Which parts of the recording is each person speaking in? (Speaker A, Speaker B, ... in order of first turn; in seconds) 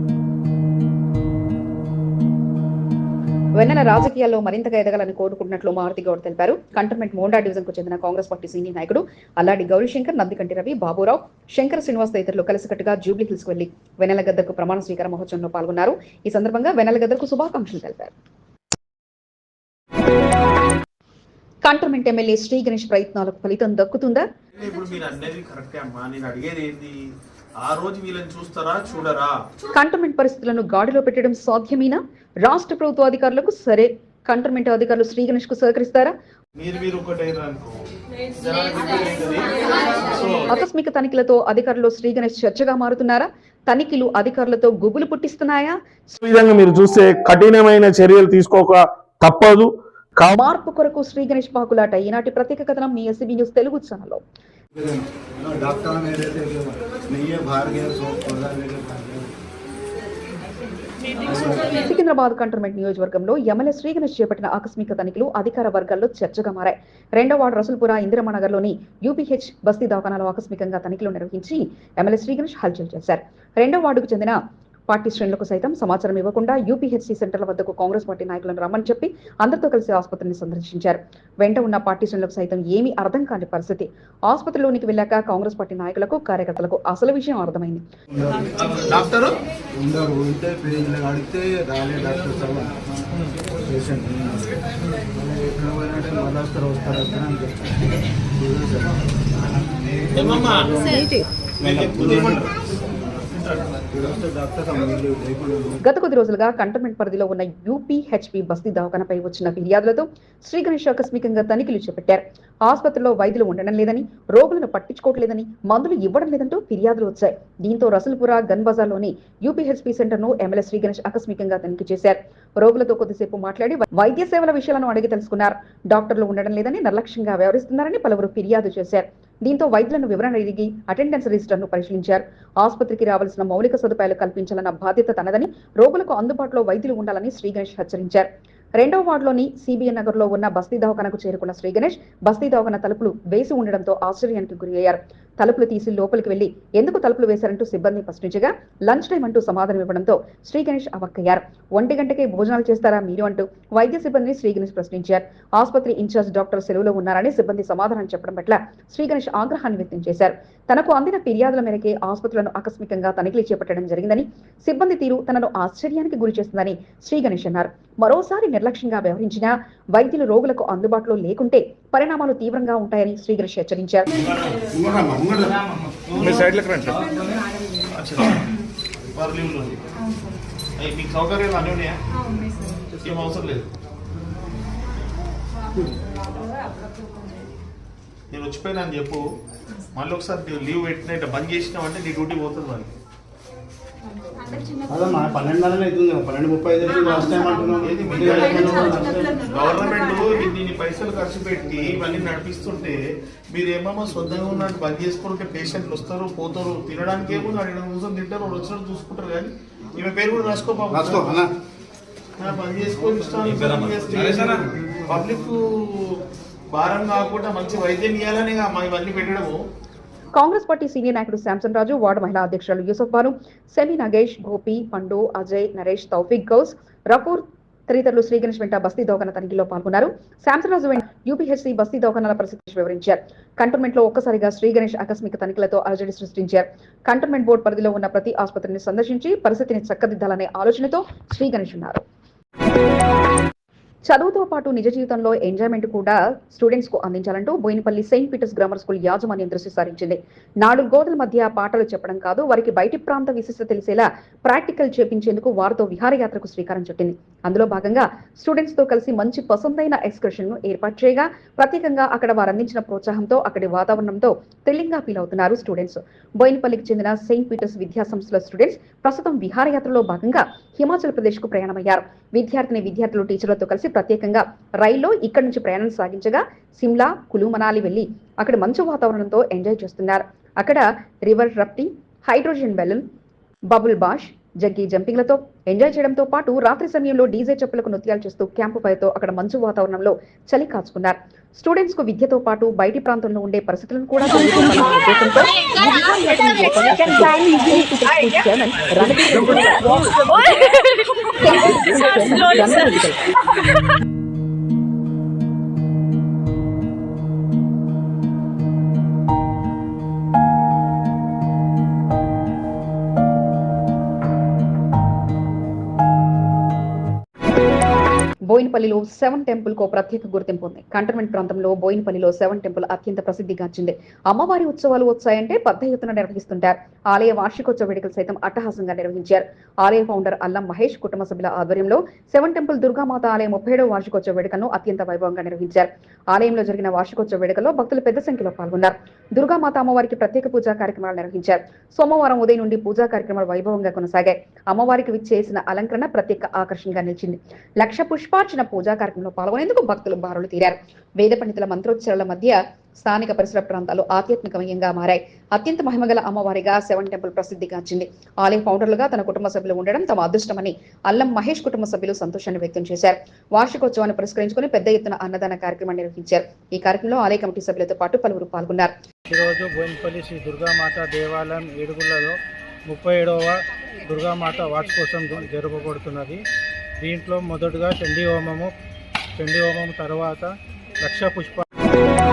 Speaker A: 3.6-18.1, 21.6-24.2, 29.7-36.1, 40.5-45.8, 50.4-54.2, 61.8-87.8, 105.8-174.1, 220.3-242.0, 244.1-283.0, 283.7-300.6, 301.4-303.2, 318.5-368.9
Speaker B: 24.6-29.4, 36.6-40.5, 88.7-89.4, 100.1-100.7, 101.6-103.7, 177.9-178.4, 179.1-179.8, 180.8-182.0, 183.0-183.7, 188.3-189.2, 189.9-192.9, 197.8-203.0, 203.5-211.4, 212.4-219.5
Speaker C: 46.2-50.4, 176.3-176.9
Speaker D: 54.7-59.3, 61.2-61.7, 88.1-88.5, 89.8-92.7, 93.7-94.5, 95.1-97.8, 98.4-99.0, 100.2-101.0, 101.6-102.4, 103.9-105.8, 174.7-175.7, 194.9-199.3, 210.9-211.5
Speaker E: 369.3-372.4, 372.9-376.4, 377.0-378.7, 379.4-381.6